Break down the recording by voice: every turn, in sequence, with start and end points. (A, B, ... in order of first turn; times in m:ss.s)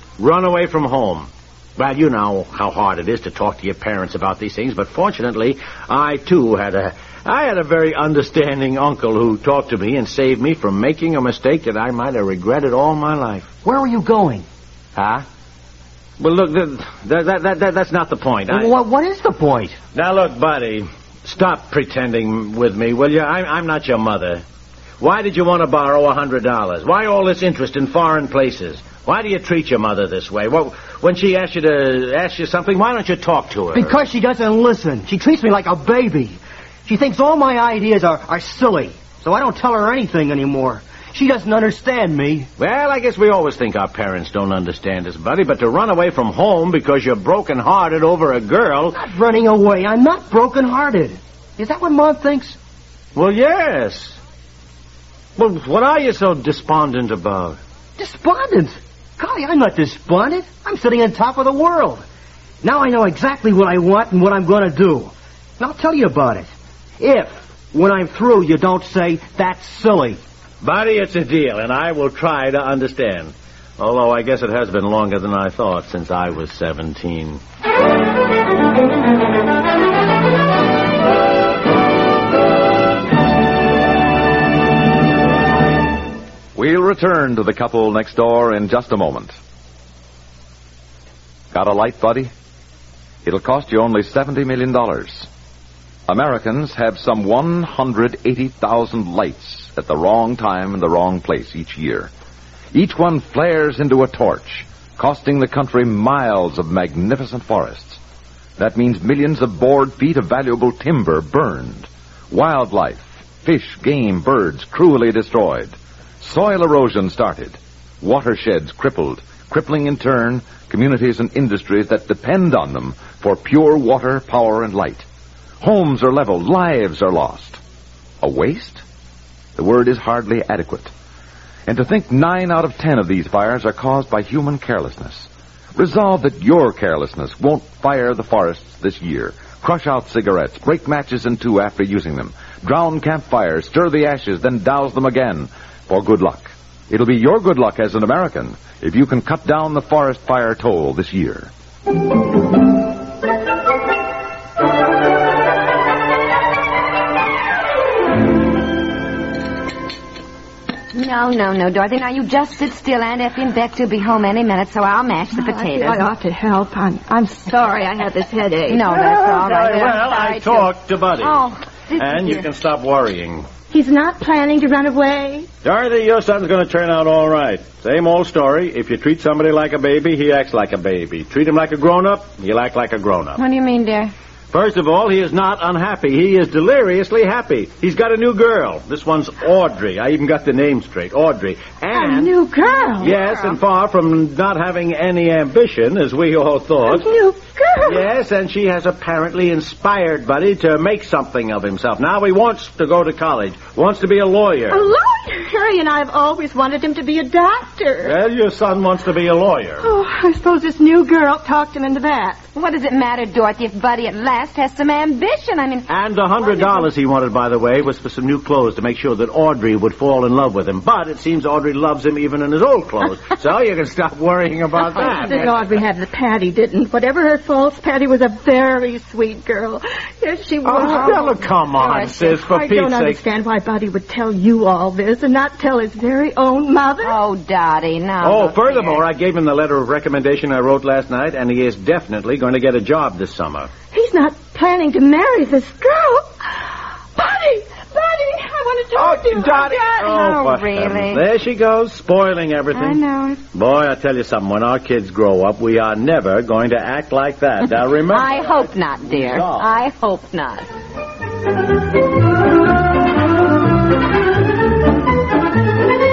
0:00.2-0:13.5 A
0:13.6-0:14.4 B
0:15.0-0:15.2 A
0:16.2-0:18.7 A
0:18.5-0:19.8 B
0:19.9-0:24.4 A
0:25.0-0:34.0 A
0:33.7-0:42.5 B
0:42.6-0:49.0 A
0:48.9-0:52.6 B
0:53.1-0:54.2 A
0:55.4-0:57.6 A
0:58.0-1:02.0 B
1:02.6-1:06.5 B
1:07.0-1:10.2 B
1:10.6-1:17.4 A
1:26.5-1:29.3 C
1:31.5-1:32.3 C
1:33.2-1:35.3 C
1:36.1-1:42.1 C
1:42.7-1:48.0 C
1:48.6-2:05.1 C
2:05.6-2:07.6 C
2:08.2-2:08.8 C
2:09.6-2:10.9 C
2:11.7-2:31.5 C
2:40.9-2:46.0 D
2:45.3-2:48.9 E
2:48.7-2:50.7 D
2:48.9-2:53.5 A
2:51.2-2:52.4 D
2:53.7-2:55.5 E
2:55.6-3:03.4 A
3:03.4-3:04.1 D
3:04.5-3:12.3 A
3:11.9-3:13.4 E
3:13.0-3:17.1 A
3:16.8-3:18.0 E
3:17.8-3:24.8 A
3:24.7-3:28.1 E
3:28.0-3:29.8 A
3:29.8-3:32.4 E
3:32.5-3:35.9 D
3:35.9-3:45.7 A
3:45.0-3:51.4 E
3:50.6-3:53.2 A
3:51.8-3:52.1 D
3:52.1-3:57.2 E
3:57.0-3:59.0 D
3:58.2-4:03.7 A
4:03.9-4:06.3 E
4:07.1-4:09.9 E
4:09.0-4:19.7 A
4:09.8-4:11.2 D
4:12.7-4:13.4 D
4:18.1-4:20.7 D